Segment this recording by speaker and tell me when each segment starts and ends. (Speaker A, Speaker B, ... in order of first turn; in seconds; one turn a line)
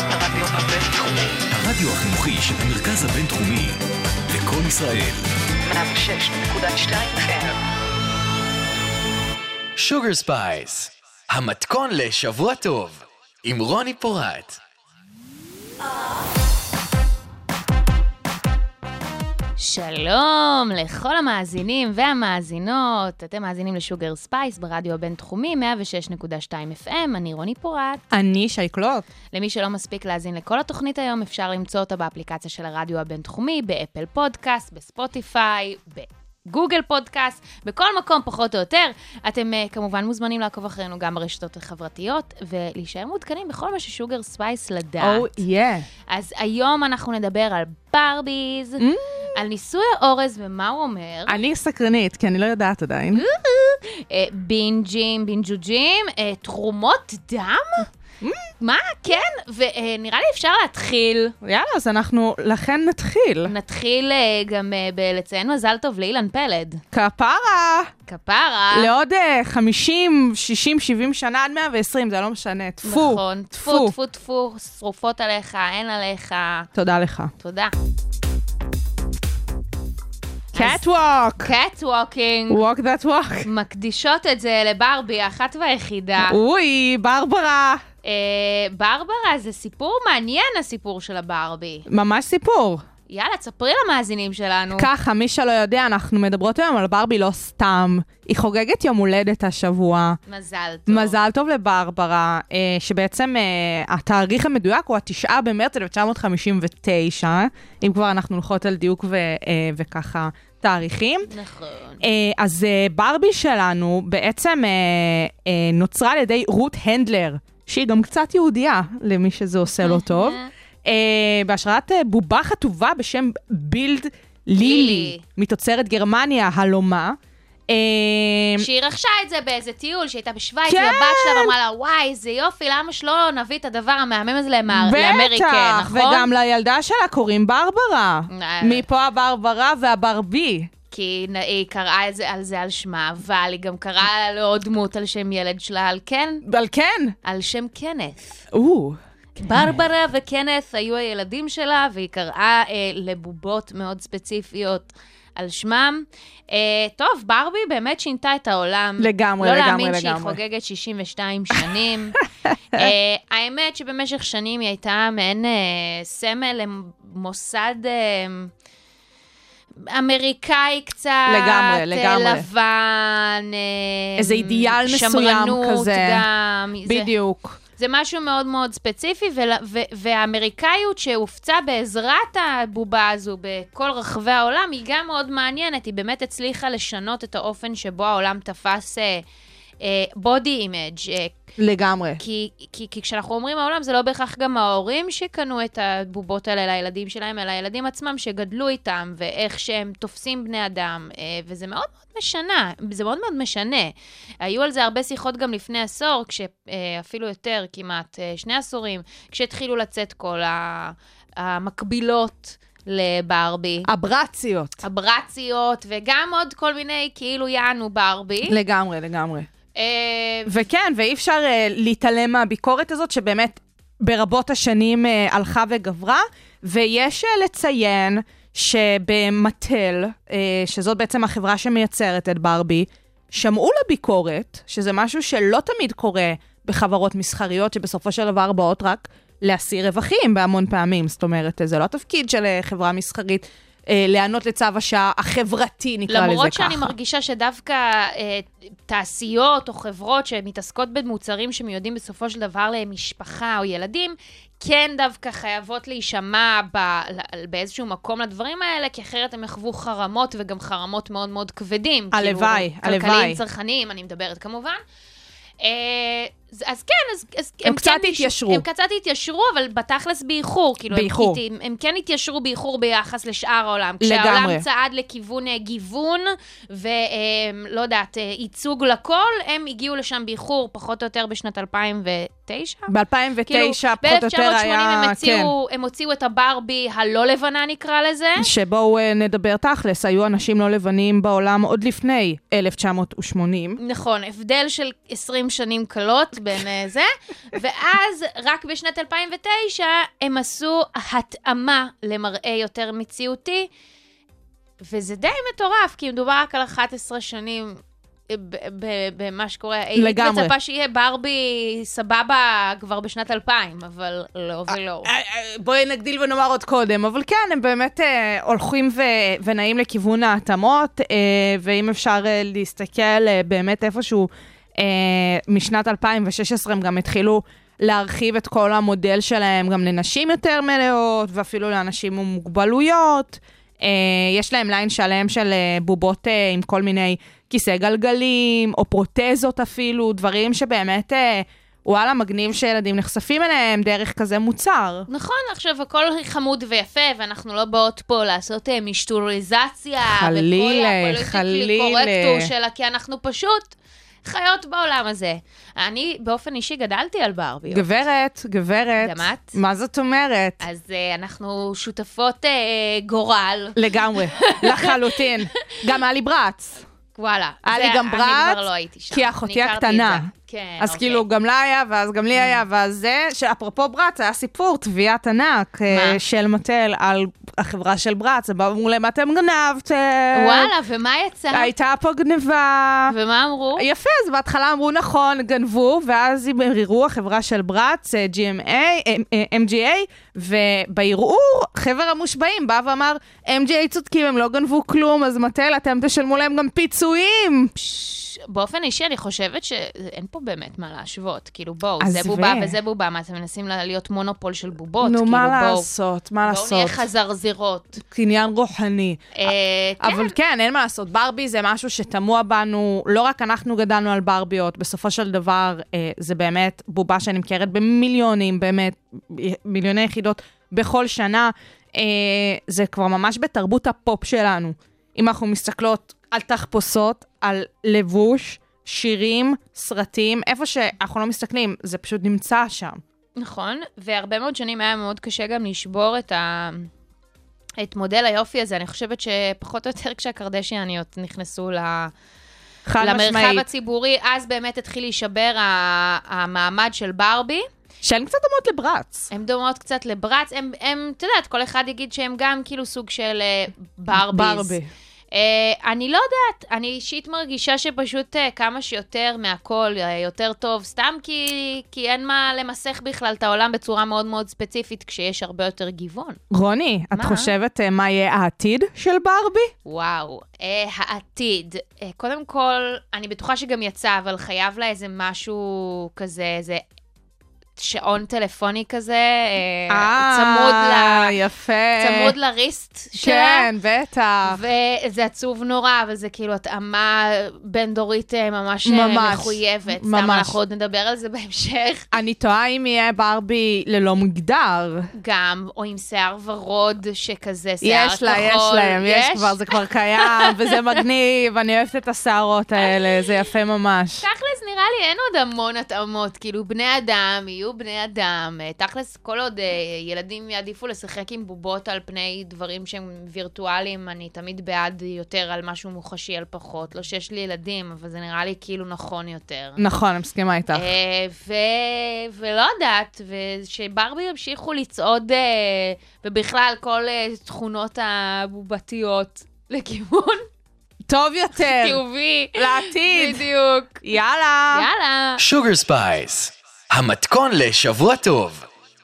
Speaker A: 0.1-1.4
Speaker B: 1.5-5.4
Speaker A: 5.6-7.6
Speaker C: 9.8-14.6
Speaker D: 19.6-28.0
Speaker E: 28.1-29.1
Speaker D: 29.3-45.4
Speaker E: 45.0-45.9
Speaker D: 46.1-51.4
Speaker E: 48.8-49.4
Speaker E: 51.3-53.2
Speaker D: 53.1-57.9
Speaker E: 58.2-58.5
Speaker D: 58.6-61.3
Speaker E: 61.4-63.5
Speaker D: 63.5-66.8
Speaker E: 66.9-67.9
Speaker D: 68.1-68.9
Speaker E: 68.7-73.9
Speaker D: 72.8-76.7
Speaker E: 76.7-77.3
Speaker D: 77.4-77.7
Speaker E: 80.5-81.5
Speaker D: 80.5-80.8
Speaker D: 81.4-82.6
Speaker E: 82.5-83.5
Speaker D: 83.4-86.4
Speaker E: 86.2-87.8
Speaker D: 88.0-91.8
Speaker E: 91.9-92.8
Speaker D: 93.1-94.9
Speaker E: 94.7-100.2
Speaker D: 100.3-101.2
Speaker E: 100.9-111.3
Speaker D: 111.3-112.0
Speaker E: 112.0-127.2
Speaker D: 119.8-120.5
Speaker D: 124.6-125.2
Speaker E: 127.7-128.7
Speaker D: 128.6-136.3
Speaker E: 130.7-131.5
Speaker E: 134.7-140.7
Speaker D: 138.3-138.8
Speaker D: 140.9-146.4
Speaker E: 146.4-147.2
Speaker D: 147.2-148.4
Speaker E: 148.5-149.0
Speaker D: 149.4-162.2
Speaker E: 159.0-160.4
Speaker E: 162.5-162.9
Speaker D: 162.7-168.5
Speaker D: 169.8-177.1
Speaker E: 171.2-172.5
Speaker E: 174.2-176.2
Speaker E: 176.8-177.6
Speaker D: 177.8-189.2
Speaker D: 189.8-191.3
Speaker E: 191.6-192.2
Speaker D: 192.2-213.9
Speaker E: 213.8-214.8
Speaker D: 214.8-218.5
Speaker E: 218.4-219.5
Speaker D: 219.7-220.6
Speaker E: 220.4-246.9
Speaker D: 246.1-264.8
Speaker E: 262.1-263.4
Speaker D: 265.6-282.9
Speaker E: 267.6-268.6
Speaker E: 270.9-271.4
Speaker E: 274.0-274.6
Speaker E: 282.9-285.5
Speaker D: 283.4-288.5
Speaker E: 288.4-293.8
Speaker D: 293.8-303.7
Speaker D: 304.8-315.1
Speaker E: 309.9-310.5
Speaker E: 315.0-345.1
Speaker D: 345.1-353.7
Speaker E: 350.0-352.5
Speaker D: 354.2-357.9
Speaker E: 357.7-360.6
Speaker D: 359.0-359.6
Speaker D: 360.6-365.8
Speaker E: 363.8-366.8
Speaker D: 367.1-371.2
Speaker E: 367.6-370.3
Speaker E: 370.8-380.7
Speaker D: 375.9-376.2
Speaker D: 380.3-381.7
Speaker E: 381.5-383.1
Speaker D: 383.1-383.9
Speaker E: 383.8-397.7
Speaker D: 397.7-405.9
Speaker E: 402.0-402.7
Speaker E: 405.0-407.0
Speaker D: 406.4-408.0
Speaker E: 408.0-433.0
Speaker D: 409.3-410.4
Speaker D: 433.4-436.9
Speaker D: 437.8-442.1
Speaker E: 442.9-443.6
Speaker D: 443.0-447.7
Speaker E: 448.0-449.3
Speaker D: 449.3-454.8
Speaker E: 454.1-454.9
Speaker D: 455.3-466.4
Speaker E: 466.5-469.7
Speaker D: 467.1-467.5
Speaker D: 469.8-476.8
Speaker D: 477.8-481.3
Speaker E: 479.9-482.3
Speaker D: 482.0-483.7
Speaker E: 483.2-484.6
Speaker D: 484.4-492.1
Speaker E: 488.9-490.6
Speaker E: 492.1-495.1
Speaker D: 495.1-499.6
Speaker E: 497.8-504.2
Speaker D: 500.2-500.9
Speaker D: 504.2-519.8
Speaker E: 519.8-520.9
Speaker D: 520.7-530.5
Speaker E: 531.1-532.0
Speaker D: 531.6-534.0
Speaker E: 532.5-533.5
Speaker E: 534.0-534.9
Speaker D: 534.7-535.4
Speaker C: 535.4-538.6